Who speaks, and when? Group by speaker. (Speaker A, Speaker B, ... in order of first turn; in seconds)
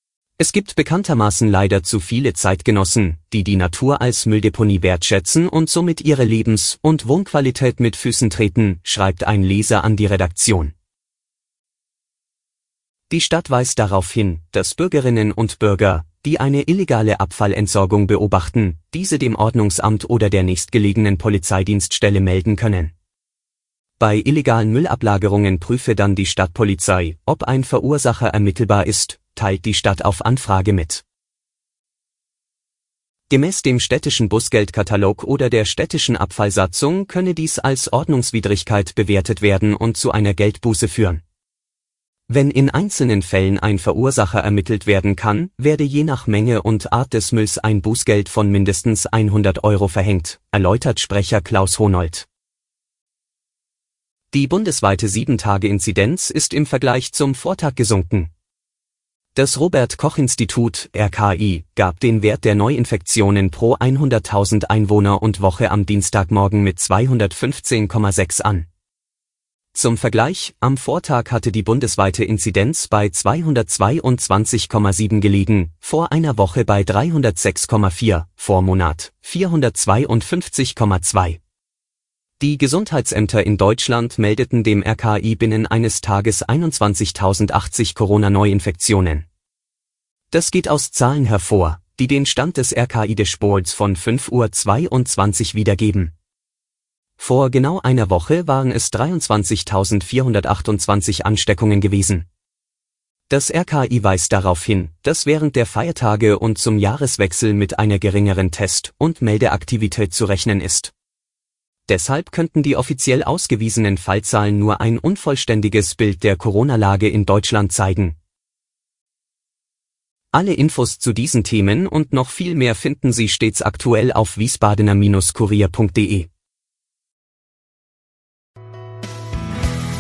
Speaker A: 0.4-10.7, 13.1-22.9, 24.0-31.0, 33.3-41.2, 42.3-52.3, 54.3-58.3, 59.4-68.7, 69.7-81.4, 82.4-89.3, 90.3-96.1, 97.2-102.3, 103.3-110.9, 111.9-118.2, 120.3-126.3